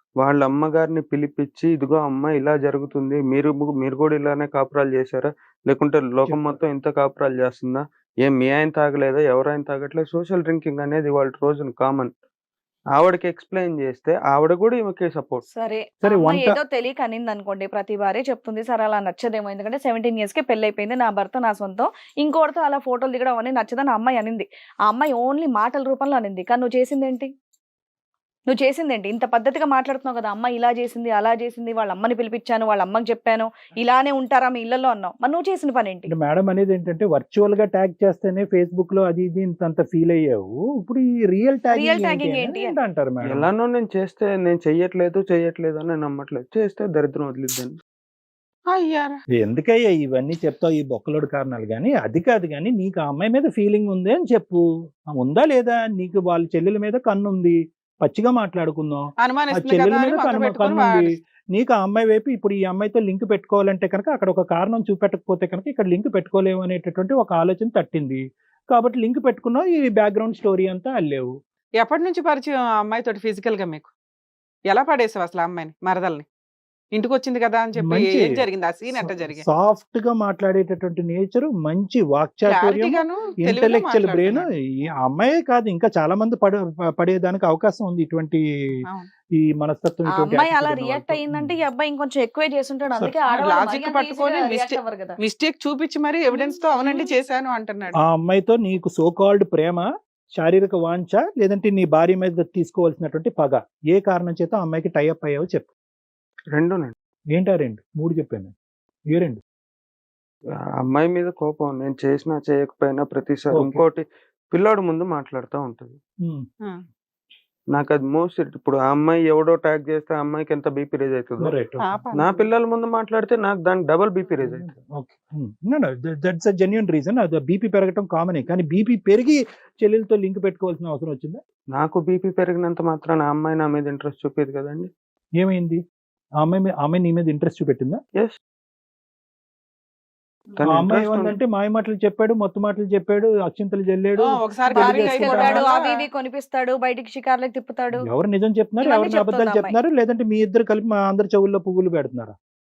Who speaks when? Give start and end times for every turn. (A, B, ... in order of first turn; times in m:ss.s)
0:00.2-0:12.1 A
0:06.3-0:06.6 B
0:12.9-0:15.4 A
0:15.5-0:27.3 C
0:16.0-0:16.6 B
0:28.5-0:36.1 C
0:36.1-0:43.5 B
0:41.7-0:42.8 C
0:43.3-0:47.8 A
0:48.7-0:49.2 D
0:49.4-0:54.6 B
0:55.1-1:11.3 B
0:59.2-1:01.1 D
1:11.8-1:13.9 D
1:14.7-1:16.2 D
1:17.0-1:19.4 D
1:17.8-1:18.3 B
1:19.0-1:24.5 B
1:22.5-1:24.4 D
1:25.0-1:28.4 B
1:29.4-1:31.6 B
1:30.1-1:35.2 C
1:33.3-1:38.0 D
1:36.3-1:37.1 C
1:38.0-1:45.7 B
1:46.6-1:46.9 A
1:47.3-1:48.5 B
1:49.1-1:49.4 B
1:50.8-1:56.0 A
1:53.5-1:53.8 B
1:57.7-2:01.6 A
2:01.4-2:02.0 B
2:01.8-2:02.4 D
2:02.1-2:04.7 A
2:04.4-2:11.4 B
2:11.7-2:14.9 A
2:15.4-2:15.8 B
2:16.4-2:18.0 B
2:20.6-2:21.4 A
2:20.7-2:25.6 B
2:24.2-2:26.0 D
2:24.7-2:28.0 C
2:28.0-2:32.4 B
2:28.8-2:29.8 C